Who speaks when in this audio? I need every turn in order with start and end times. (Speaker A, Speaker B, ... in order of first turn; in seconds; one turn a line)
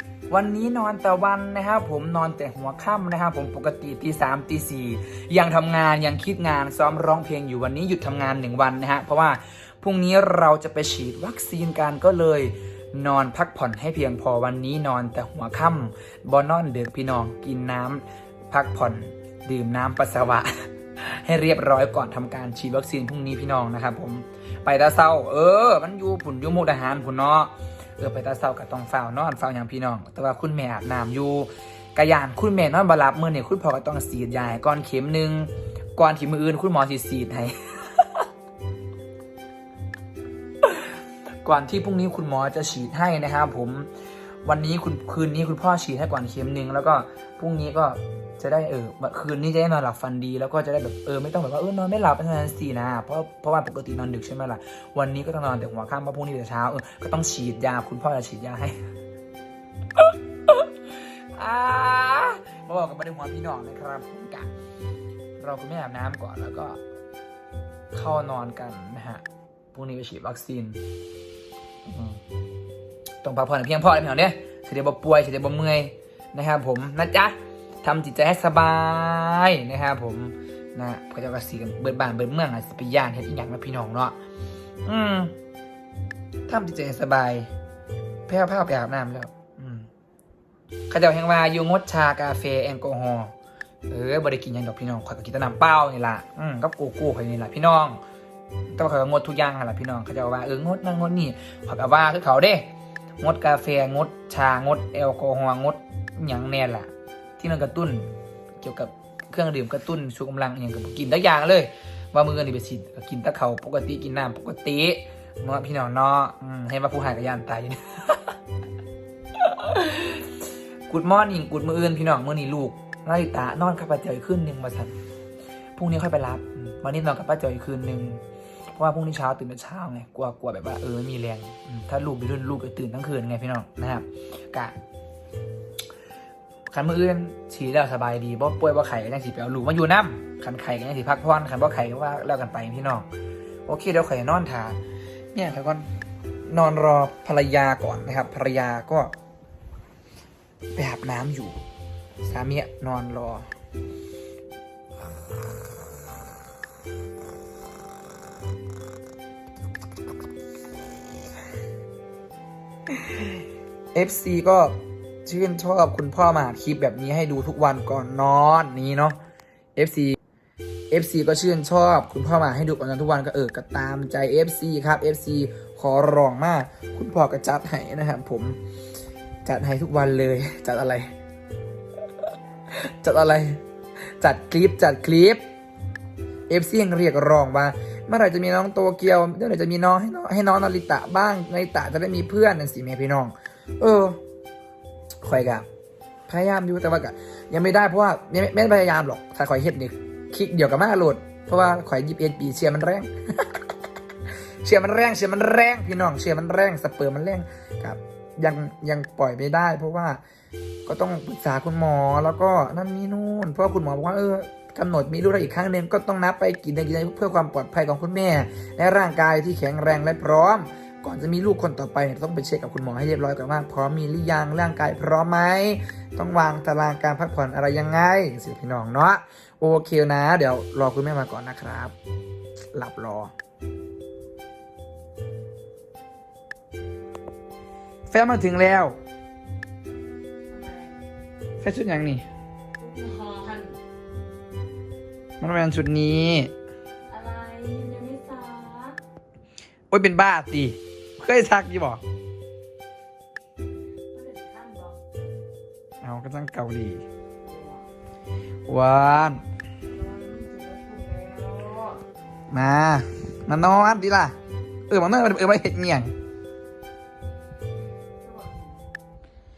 Speaker A: 0.3-38.1
Speaker A: 41.4-43.9
Speaker A: 44.5-58.8
Speaker A: 60.0-60.7
Speaker A: 61.3-64.5
Speaker A: 65.4-66.8
Speaker A: 67.9-69.2
Speaker A: 69.7-70.8
Speaker A: 71.9-72.2
Speaker A: 73.2-84.2
Speaker A: 84.8-85.3
Speaker A: 86.5-87.5
Speaker A: 88.3-89.9
Speaker A: 90.9-93.3
Speaker A: 93.9-98.0
Speaker A: 98.7-102.7
Speaker A: 103.2-108.1
Speaker A: 108.6-118.3
Speaker A: 119.4-120.3
Speaker A: 120.9-124.9
Speaker A: 125.8-128.2
Speaker A: 128.8-134.8
Speaker A: 136.7-143.1
Speaker A: 143.7-144.8
Speaker A: 145.3-145.9
Speaker A: 146.5-149.1
Speaker A: 150.8-151.6
Speaker A: 152.2-153.5
Speaker A: 163.9-169.2
Speaker A: 169.8-170.2
Speaker A: 170.9-178.6
Speaker A: 179.4-181.1
Speaker A: 182.7-183.6
Speaker A: 184.2-185.4
Speaker A: 186.5-194.2
Speaker A: 195.2-195.7
Speaker A: 196.3-203.5
Speaker A: 204.6-210.2
Speaker A: 210.9-231.9
Speaker A: 232.7-233.3
Speaker A: 238.1-239.0
Speaker B: 240.5-241.0
Speaker A: 241.6-242.3
Speaker B: 242.8-243.8
Speaker A: 245.4-246.5
Speaker B: 247.1-249.0
Speaker A: 249.9-252.0
Speaker B: 254.1-255.0
Speaker A: 256.0-257.1
Speaker B: 257.5-257.8
Speaker A: 258.7-259.4
Speaker B: 259.9-262.0
Speaker A: 262.5-264.4
Speaker A: 264.9-266.1
Speaker B: 268.2-268.8